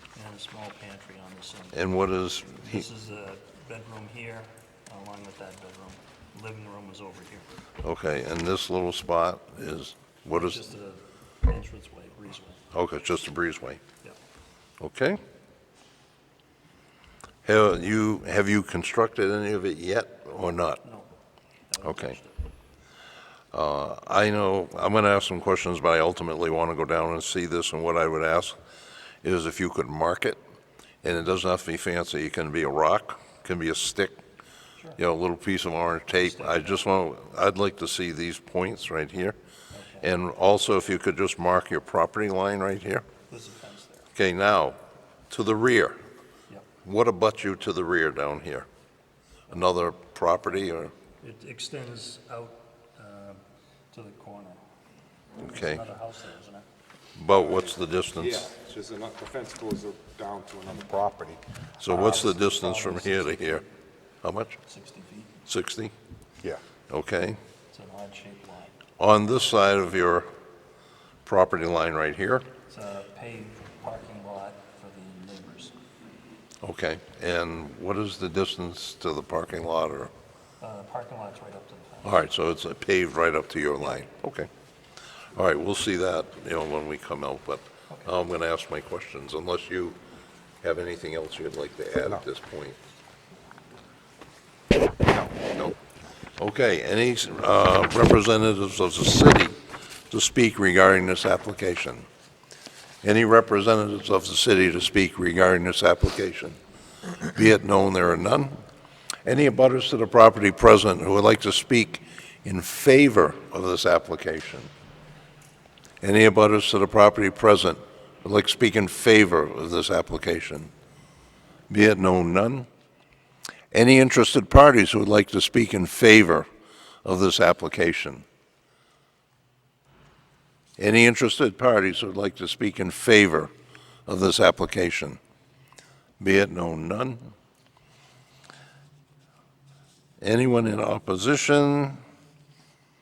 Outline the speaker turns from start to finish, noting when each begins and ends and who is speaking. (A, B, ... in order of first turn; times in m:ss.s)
0:00.2-0:01.8 A
0:01.7-0:02.9 B
0:02.6-0:07.6 A
0:07.8-0:10.6 B
0:10.3-0:12.6 A
0:12.7-0:13.8 B
0:14.8-0:15.2 B
0:17.4-0:20.8 B
0:21.7-0:22.4 A
0:21.8-0:22.2 B
0:23.5-0:28.6 B
0:29.2-0:30.4 B
0:31.0-0:34.2 B
0:35.0-0:39.4 B
0:36.2-0:36.8 A
0:39.7-0:40.1 A
0:40.0-0:43.0 B
0:43.3-0:44.1 A
0:44.2-0:44.8 B
0:45.3-0:46.0 B
0:46.8-0:48.7 B
0:49.5-0:50.9 B
0:51.2-0:54.6 A
0:55.4-0:56.7 A
0:55.4-0:55.8 B
0:57.2-0:58.5 B
0:57.5-1:01.4 C
1:01.8-1:03.6 B
1:01.8-1:03.7 A
1:04.2-1:04.6 B
1:04.6-1:05.4 A
1:05.5-1:05.9 B
1:06.9-1:07.4 B
1:07.7-1:08.8 A
1:09.0-1:10.3 B
1:11.2-1:12.5 B
1:12.7-1:15.7 A
1:16.6-1:20.1 B
1:20.6-1:22.2 A
1:22.0-1:24.5 B
1:25.3-1:30.0 B
1:30.6-1:32.8 B
1:35.4-1:35.8 B
1:36.4-1:39.6 B
1:40.1-1:42.1 B
1:43.0-1:46.6 B
1:47.2-1:48.6 B
1:49.2-1:54.7 B
1:56.0-2:00.7 B
2:01.7-2:02.7 B
2:03.7-2:06.5 B
2:07.0-2:08.2 B
2:10.8-2:13.5 B
2:14.1-2:15.2 B
2:16.2-2:17.3 B
2:20.2-2:22.0 B